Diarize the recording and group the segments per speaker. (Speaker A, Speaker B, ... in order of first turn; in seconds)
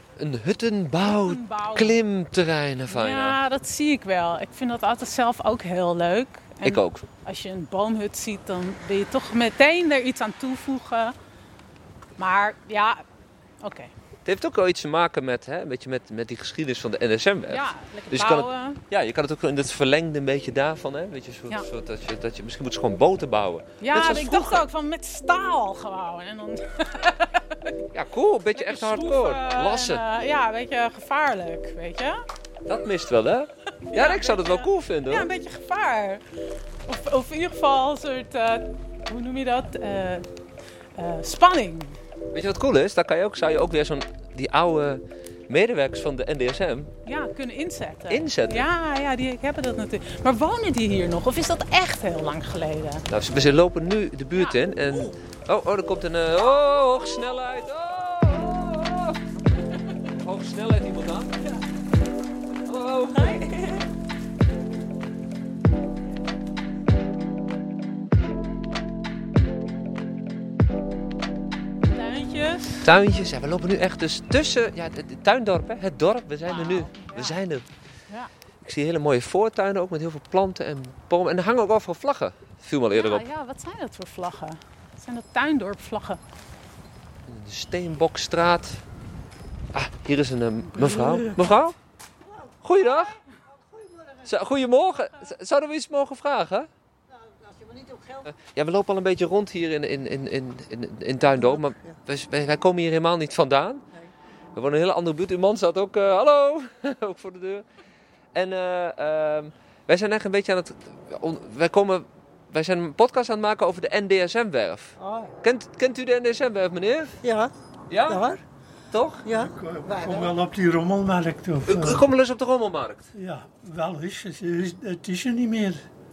Speaker A: 0.2-3.4, 6.6-7.0, 14.2-24.6, 27.9-30.0, 32.7-35.3, 42.3-46.9, 48.1-48.7, 53.1-59.2, 60.0-61.3, 62.6-63.8, 72.8-77.6, 78.6-83.3, 87.3-88.8, 89.7-91.8, 92.6-93.2, 94.2-96.7, 98.3-103.8, 104.5-107.6, 108.3-117.2, 117.9-118.3, 118.9-119.2, 121.7-123.1
Speaker B: 1.0-1.9, 2.9-11.1, 12.2-13.0, 13.6-13.9, 17.5-18.8, 23.8-27.8, 28.5-32.2, 33.9-36.2, 36.9-40.2, 41.0-42.0, 47.0-53.0, 54.4-55.1, 71.8-72.9, 76.4-77.4, 82.9-86.2, 90.9-91.3
Speaker C: 93.6-94.3, 97.1-98.3, 101.3-102.0, 115.0-115.3, 117.2-117.5, 118.0-118.4, 119.2-120.3
Speaker D: 119.3-122.0, 123.1-125.8